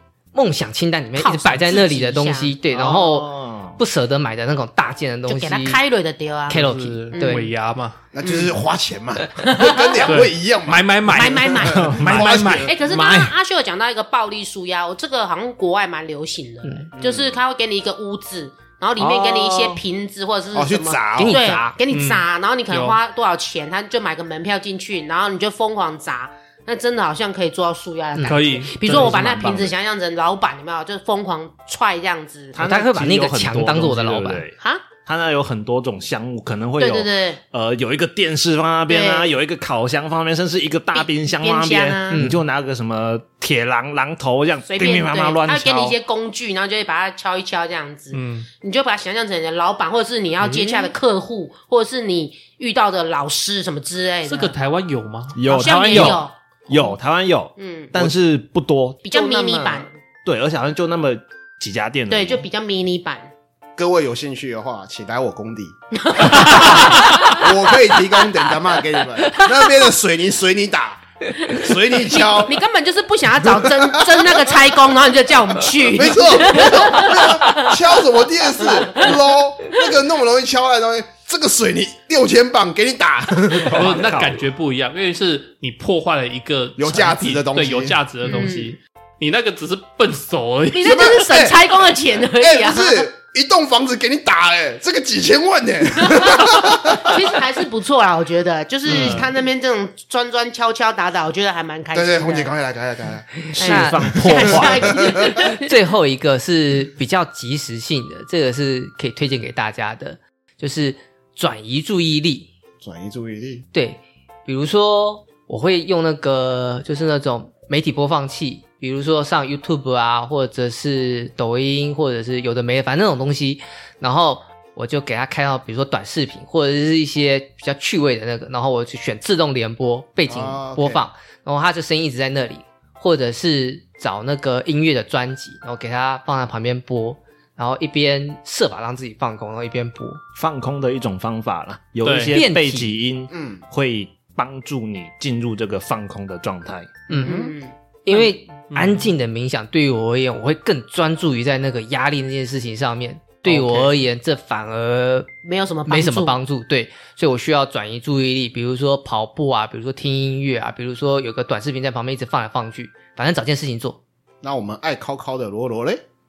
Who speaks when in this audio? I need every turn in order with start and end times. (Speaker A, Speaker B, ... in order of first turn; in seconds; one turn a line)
Speaker A: 0.3-5.8
Speaker B: 1.1-2.5
Speaker C: 2.7-3.8
Speaker B: 5.3-6.6
Speaker A: 6.5-7.5
Speaker D: 6.5-8.0
Speaker B: 7.1-7.4
Speaker E: 8.1-12.8
Speaker B: 8.2-8.5
Speaker B: 9.4-10.1
Speaker D: 10.0-12.7
Speaker B: 11.1-12.0
Speaker C: 11.7-13.3
Speaker B: 12.6-32.6
Speaker E: 16.9-17.4
Speaker C: 19.0-19.8
Speaker E: 20.5-21.4
Speaker A: 21.1-21.8
Speaker D: 21.9-23.0
Speaker D: 28.2-29.1
Speaker C: 28.8-29.7
Speaker C: 32.5-46.0
Speaker A: 32.6-34.5
Speaker B: 34.6-34.8
Speaker B: 36.8-37.4
Speaker B: 38.9-39.3
Speaker B: 40.9-42.3
Speaker A: 42.1-42.4
Speaker B: 44.7-54.5
Speaker D: 48.1-48.5
Speaker D: 54.2-55.4
Speaker C: 55.3-59.1
Speaker B: 55.5-56.8
Speaker B: 57.5-58.1
Speaker B: 59.0-59.9
Speaker A: 59.1-59.8
Speaker C: 60.2-62.4
Speaker B: 62.1-63.3
Speaker E: 63.8-72.6
Speaker B: 66.0-68.0
Speaker B: 71.5-77.8
Speaker E: 73.4-74.9
Speaker E: 75.8-84.1
Speaker B: 78.6-79.1
Speaker D: 83.7-91.1
Speaker C: 83.7-84.4
Speaker E: 86.8-88.0
Speaker B: 88.2-88.8
Speaker B: 90.7-93.1
Speaker E: 90.8-91.6
Speaker E: 92.4-97.3
Speaker B: 96.1-102.5
Speaker E: 98.8-99.3
Speaker E: 101.9-103.3
Speaker C: 103.5-105.0
Speaker B: 103.5-105.7
Speaker A: 103.6-104.6
Speaker E: 104.6-105.3
Speaker A: 105.4-112.5
Speaker E: 112.8-113.6
Speaker A: 113.7-140.2
Speaker E: 130.3-131.1
Speaker C: 140.3-147.1
Speaker D: 142.0-142.4
Speaker A: 142.3-142.9
Speaker E: 143.3-143.6
Speaker A: 147.1-147.5
Speaker B: 147.1-148.3
Speaker E: 147.2-147.5
Speaker A: 148.0-155.3
Speaker D: 148.7-149.1
Speaker B: 153.5-153.9
Speaker B: 155.4-156.4
Speaker A: 155.8-164.0
Speaker E: 164.4-166.0